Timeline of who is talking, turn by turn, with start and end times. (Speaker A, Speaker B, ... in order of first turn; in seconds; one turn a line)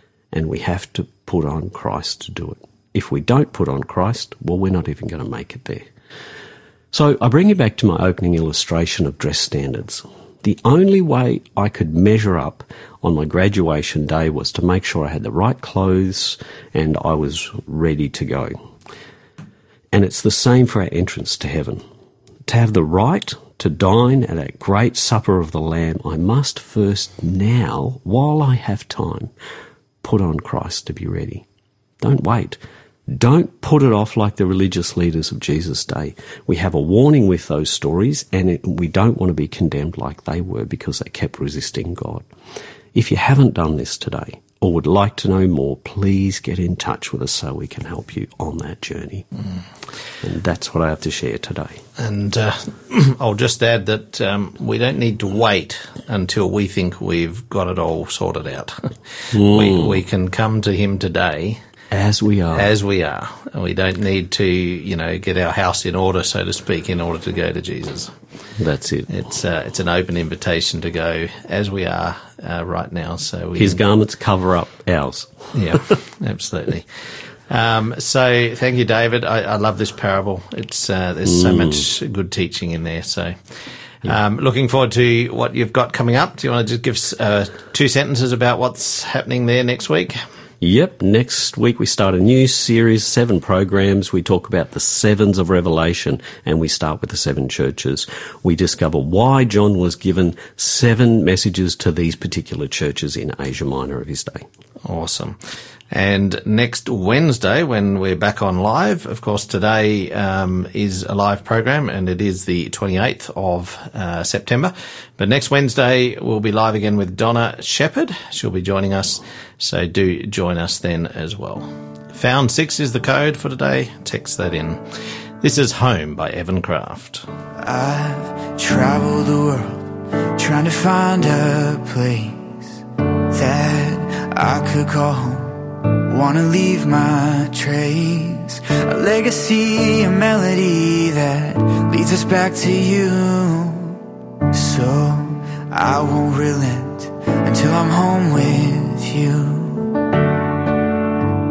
Speaker A: 0.3-5.9
Speaker A: 6.9-18.5
Speaker A: 19.9-21.8
Speaker A: 22.4-29.3
Speaker A: 30.0-31.4
Speaker A: 32.0-42.3
Speaker A: 42.9-49.2
Speaker A: 50.2-51.8
Speaker B: 52.0-61.6
Speaker A: 59.3-60.0
Speaker A: 61.9-62.7
Speaker B: 62.5-68.1
Speaker A: 68.6-69.1
Speaker B: 69.1-73.8
Speaker A: 73.5-75.8
Speaker B: 75.5-76.9
Speaker B: 77.5-83.4
Speaker A: 81.2-81.9
Speaker B: 84.0-90.2
Speaker A: 90.6-104.5
Speaker B: 104.9-105.4
Speaker B: 105.9-124.8
Speaker B: 125.4-127.2
Speaker C: 127.6-129.8
Speaker C: 130.4-132.6
Speaker C: 133.3-144.0
Speaker C: 144.5-149.8